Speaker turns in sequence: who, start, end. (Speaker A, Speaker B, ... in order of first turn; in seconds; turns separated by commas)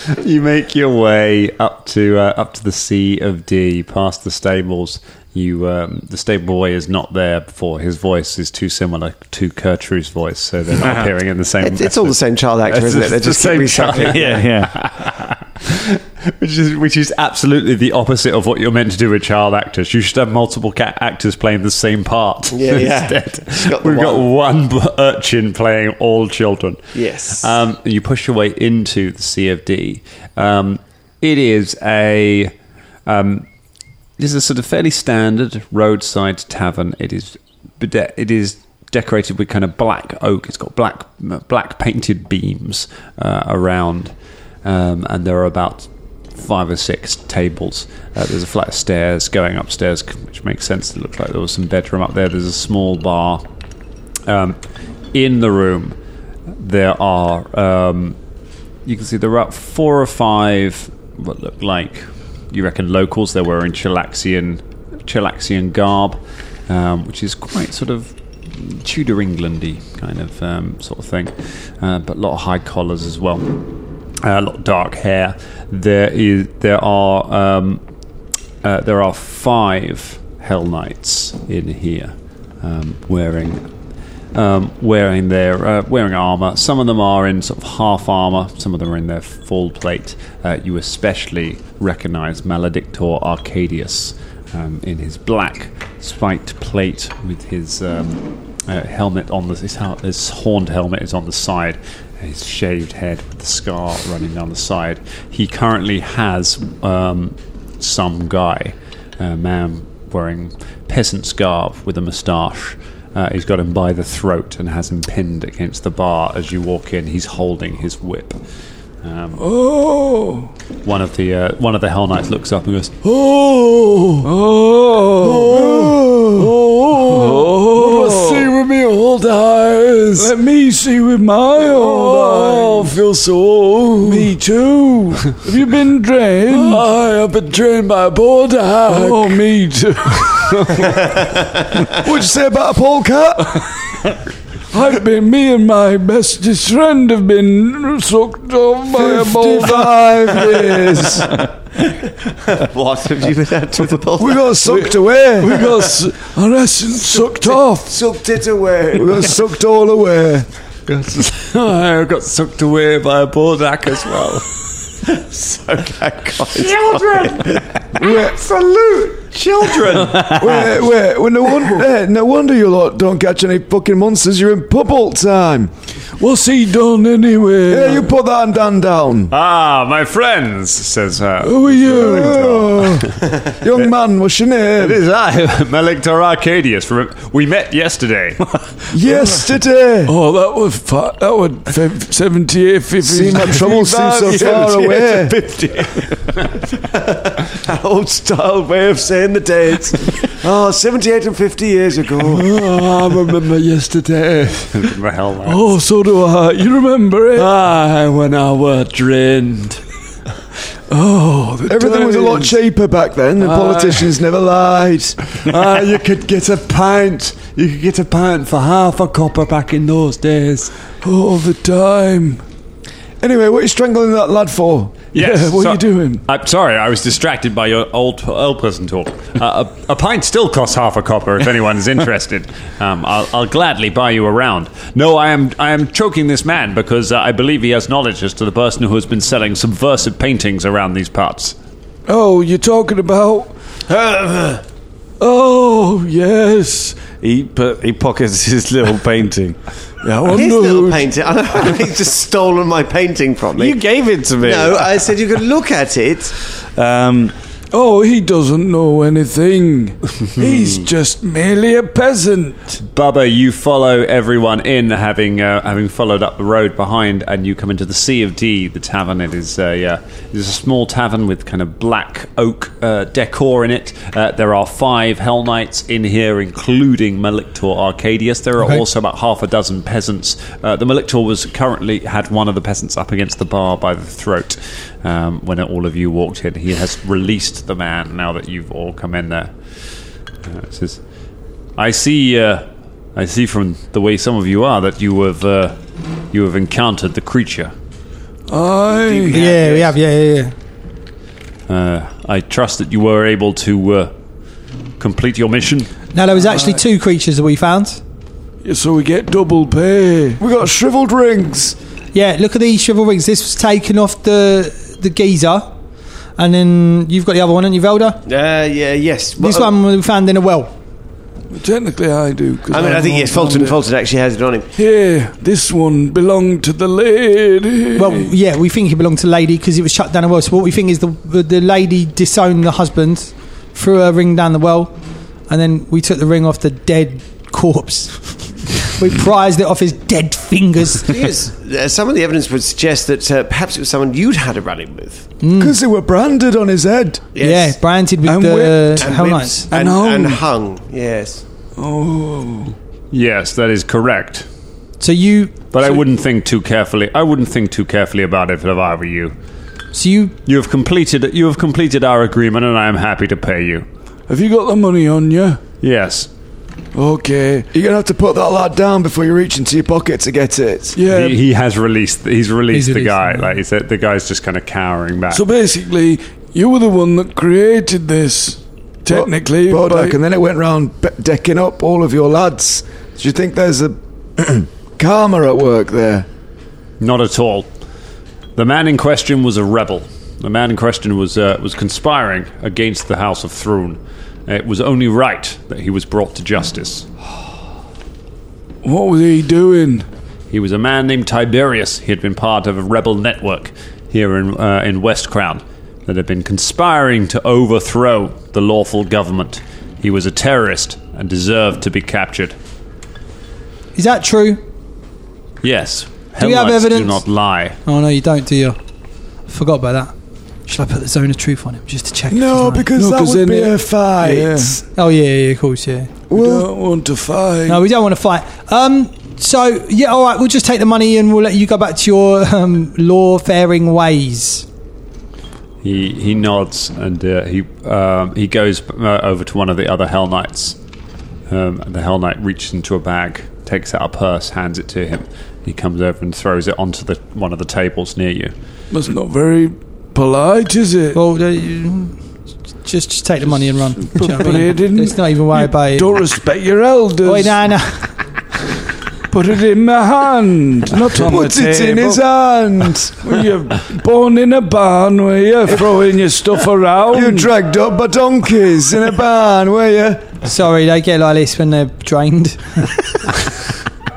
Speaker A: 0.1-12.2, Speaker B: 11.6-14.4, Speaker A: 12.7-26.8, Speaker C: 14.0-14.8, Speaker B: 22.5-24.2, Speaker B: 26.9-27.5, Speaker A: 27.4-32.5, Speaker A: 33.0-33.5, Speaker A: 34.2-44.1, Speaker A: 44.6-53.4, Speaker A: 54.2-54.6, Speaker A: 55.1-56.0, Speaker A: 56.6-58.2, Speaker A: 58.8-73.7, Speaker A: 74.2-77.8, Speaker A: 78.6-83.6, Speaker A: 84.3-118.4, Speaker A: 119.0-119.4, Speaker D: 119.4-120.5, Speaker A: 120.8-123.0, Speaker D: 123.0-128.6, Speaker E: 125.2-126.5, Speaker E: 127.1-127.4, Speaker A: 127.7-130.3, Speaker D: 130.1-133.0, Speaker A: 131.8-134.0, Speaker D: 134.0-137.0, Speaker A: 136.6-139.1, Speaker D: 138.8-140.7, Speaker E: 142.0-143.6, Speaker D: 144.7-151.3, Speaker E: 148.9-151.3, Speaker B: 151.9-154.5, Speaker E: 154.2-155.6, Speaker D: 154.6-158.1, Speaker B: 155.5-155.8, Speaker B: 157.1-159.4, Speaker E: 158.9-160.5, Speaker A: 160.9-164.4, Speaker B: 165.1-167.6, Speaker A: 166.5-170.4, Speaker E: 168.0-168.4, Speaker E: 170.2-175.7, Speaker D: 176.2-178.1, Speaker E: 177.7-179.3, Speaker A: 179.3-183.9, Speaker D: 181.4-182.5, Speaker E: 182.0-185.0, Speaker A: 184.8-188.4, Speaker E: 188.9-190.1, Speaker D: 189.0-189.3, Speaker D: 190.1-195.1, Speaker E: 193.0-195.3, Speaker B: 194.3-196.1, Speaker B: 196.9-202.4, Speaker A: 202.2-205.7, Speaker D: 205.4-207.5, Speaker A: 207.3-209.8, Speaker D: 210.9-212.6, Speaker E: 211.7-215.2, Speaker D: 213.4-214.1, Speaker A: 215.3-220.7, Speaker D: 221.0-222.4, Speaker E: 223.2-225.1, Speaker A: 225.1-241.6, Speaker D: 225.1-226.2, Speaker D: 242.1-243.5, Speaker B: 243.9-244.6, Speaker D: 245.2-247.2, Speaker C: 247.1-249.6, Speaker D: 250.0-251.1, Speaker B: 250.3-253.8, Speaker C: 253.6-255.1, Speaker B: 254.4-256.3, Speaker C: 256.8-257.3, Speaker D: 257.7-262.8, Speaker A: 262.8-289.7, Speaker A: 290.4-291.0, Speaker A: 291.8-295.8, Speaker A: 296.3-297.7, Speaker D: 298.5-299.4, Speaker B: 298.9-299.9, Speaker F: 299.3-300.5, Speaker A: 301.7-304.1, Speaker A: 305.0-305.9, Speaker F: 306.1-308.0, Speaker D: 308.6-310.4, Speaker E: 310.4-311.8, Speaker F: 312.1-315.7, Speaker F: 316.4-318.2, Speaker B: 318.2-319.7, Speaker F: 319.4-320.7, Speaker D: 321.5-323.8, Speaker B: 322.7-324.7, Speaker D: 324.8-328.3, Speaker F: 327.9-334.9, Speaker F: 335.5-341.2, Speaker B: 341.0-345.3, Speaker F: 345.4-345.8, Speaker E: 345.6-347.3, Speaker B: 347.3-347.8, Speaker F: 347.4-349.7, Speaker D: 348.2-349.1, Speaker B: 349.0-351.4, Speaker D: 349.7-350.4, Speaker D: 351.8-352.7, Speaker A: 353.1-354.5, Speaker F: 355.0-356.0, Speaker A: 355.7-359.3, Speaker F: 359.9-360.3, Speaker A: 360.4-363.9, Speaker D: 364.3-365.6, Speaker A: 365.8-366.3, Speaker D: 366.9-367.7, Speaker E: 367.7-371.0, Speaker D: 370.9-371.4, Speaker A: 371.1-375.4, Speaker F: 372.7-373.6, Speaker D: 375.3-380.2, Speaker E: 379.1-386.3, Speaker A: 387.0-387.7, Speaker A: 388.6-397.1, Speaker D: 398.8-400.0, Speaker A: 400.5-412.5, Speaker F: 413.9-414.6, Speaker A: 415.6-417.8, Speaker F: 416.4-417.2, Speaker F: 417.9-418.8, Speaker F: 419.5-420.1, Speaker F: 420.6-422.9, Speaker E: 422.3-424.8, Speaker D: 422.9-424.8, Speaker F: 424.9-426.1, Speaker E: 426.3-426.7, Speaker D: 426.3-427.8, Speaker F: 427.7-434.6, Speaker A: 435.8-440.8, Speaker A: 441.5-448.5, Speaker D: 448.9-451.2, Speaker F: 451.1-452.2, Speaker F: 452.8-456.2, Speaker D: 454.0-457.6, Speaker F: 457.2-458.1, Speaker D: 459.3-462.2, Speaker E: 461.2-463.1, Speaker D: 463.2-467.5, Speaker E: 465.7-466.0, Speaker E: 467.1-470.3, Speaker F: 470.4-473.0